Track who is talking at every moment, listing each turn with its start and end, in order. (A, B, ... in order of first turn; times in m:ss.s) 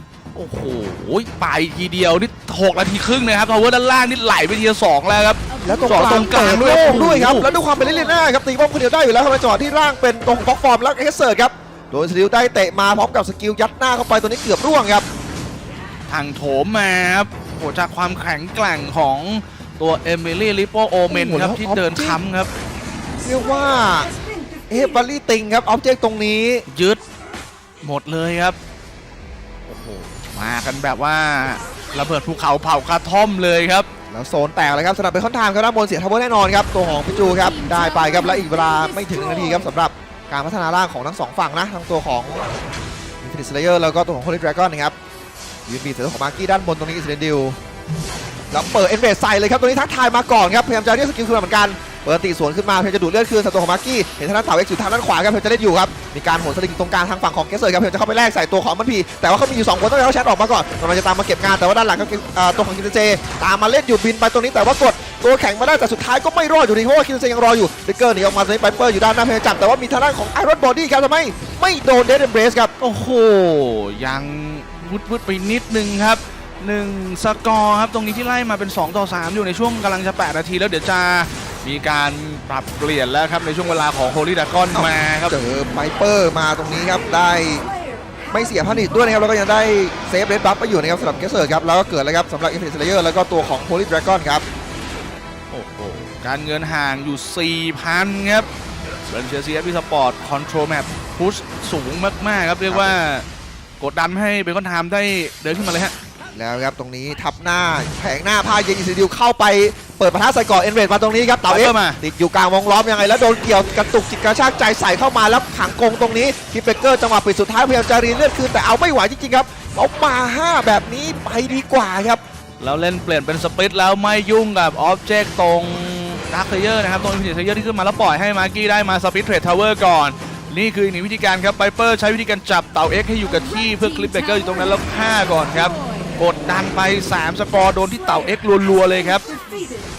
0:00.4-0:07.5 A
0:05.6-0:15.1 B
0:16.1-0:22.5 A
0:21.1-0:22.2 B
0:23.2-0:24.1 B
0:24.7-0:26.7 B
0:26.7-0:27.0 A
0:27.8-0:28.6 A
0:29.7-0:33.9 A
0:34.1-0:42.5 B
0:43.2-0:45.0 B
0:45.7-0:47.6 B
0:48.5-1:12.7 B
1:12.8-1:25.4 A
1:24.7-1:27.7 B
1:28.3-1:34.5 B
1:35.5-1:38.5 A
1:39.0-1:43.3 A
1:42.7-1:43.0 B
1:43.8-1:46.0 A
1:46.3-2:02.2 B
1:51.5-1:52.0 A
2:02.6-2:19.3 A